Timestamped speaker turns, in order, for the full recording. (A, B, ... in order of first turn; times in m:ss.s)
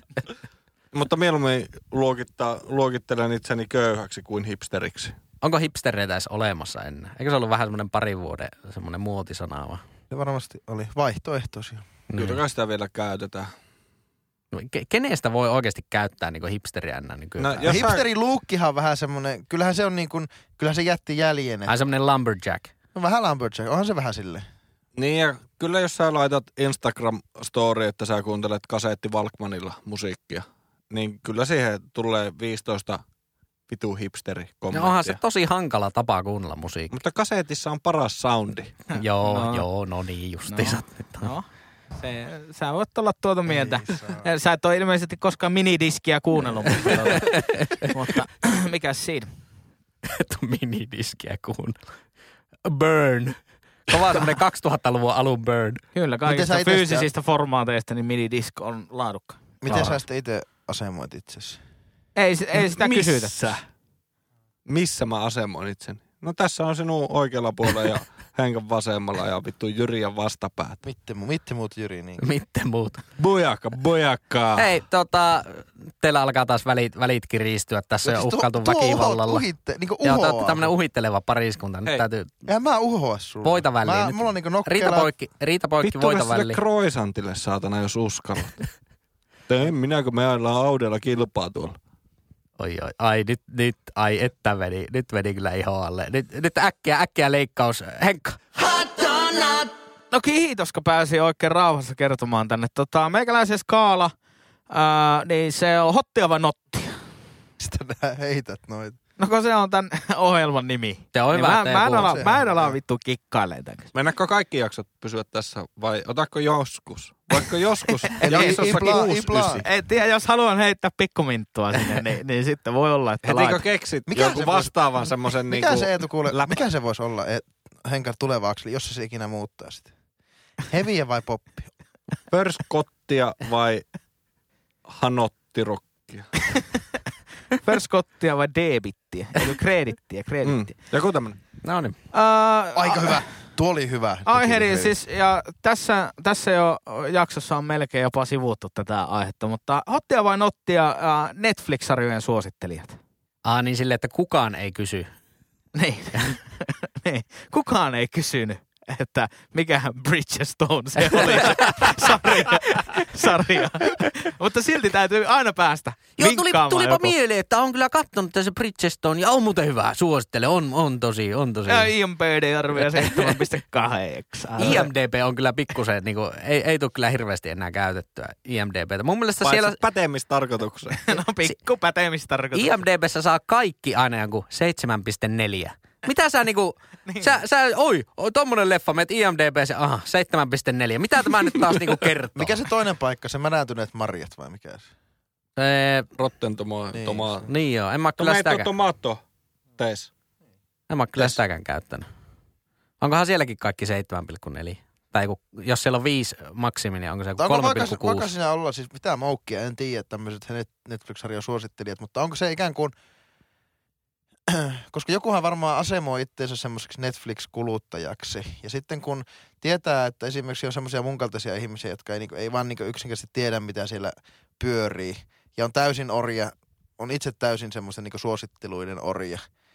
0:00.9-0:05.2 A
0:05.4-0:09.8 B
0:10.1-0:11.8 C
0:12.1-0:12.4 B
0:12.2-0:13.5 A
0:14.5-0:17.9 B
0:17.4-0:18.0 A
0:17.6-0:21.7 C
0:21.7-0:22.7 B
0:22.9-0:24.4 C
0:25.0-0:33.0 A
0:33.7-0:35.2 A
0:34.7-0:37.0 B
0:36.9-0:38.7 A
0:38.9-0:41.3 B
0:39.2-0:39.6 D
0:40.5-0:41.4 D
0:42.0-0:49.3 D
0:43.4-0:44.3 C
0:46.9-0:47.9 B
0:50.0-0:51.8 B
0:52.6-0:55.8 B
0:55.9-0:59.9 D
0:56.2-0:57.1 C
0:59.6-1:01.6 C
1:02.2-1:03.5 D
1:02.5-1:03.6 A
1:04.6-1:10.8 A
1:10.8-1:12.2 C
1:12.2-1:13.0 B
1:13.2-1:14.7 A
1:14.6-1:19.4 B
1:18.0-1:20.7 C
1:20.0-1:22.3 B
1:22.4-1:25.1 C
1:23.4-1:26.6 B
1:25.8-1:28.7 A
1:29.5-1:31.8 A
1:32.6-1:39.7 B
1:40.1-1:44.1 D
1:44.7-1:47.0 D
1:47.6-1:49.0 C
1:49.2-1:53.9 D
1:51.1-1:52.3 B
1:52.1-1:52.8 C
1:53.9-1:59.7 A
1:57.9-2:03.6 D
1:58.2-1:59.6 C
2:03.2-2:06.6 A
2:04.1-2:04.7 C
2:05.5-2:09.9 C
2:10.7-2:11.7 C
2:12.3-2:13.8 A
2:14.8-2:16.4 A
2:17.5-2:20.7 D
2:20.4-2:21.4 A
2:21.6-2:22.0 B
2:22.1-2:23.2 D
2:22.7-2:25.0 C
2:24.2-2:33.0 D
2:33.4-2:35.1 B
2:35.7-2:47.1 D
2:41.2-2:41.9 B
2:46.2-2:51.9 B
2:51.7-2:54.9 D
2:52.9-2:53.3 B
2:54.6-2:59.8 B
2:59.4-3:01.1 A
3:01.0-3:02.8 D
3:02.5-3:12.6 B
3:07.0-3:07.4 D
3:12.3-3:14.9 C
3:15.6-3:16.1 B
3:16.1-3:17.5 A
3:16.9-3:17.4 C
3:17.4-3:18.7 B
3:18.2-3:19.2 A
3:19.8-3:20.1 A
3:20.9-3:22.1 B
3:23.0-3:28.3 B
3:27.4-3:32.9 C
3:34.5-3:49.4 C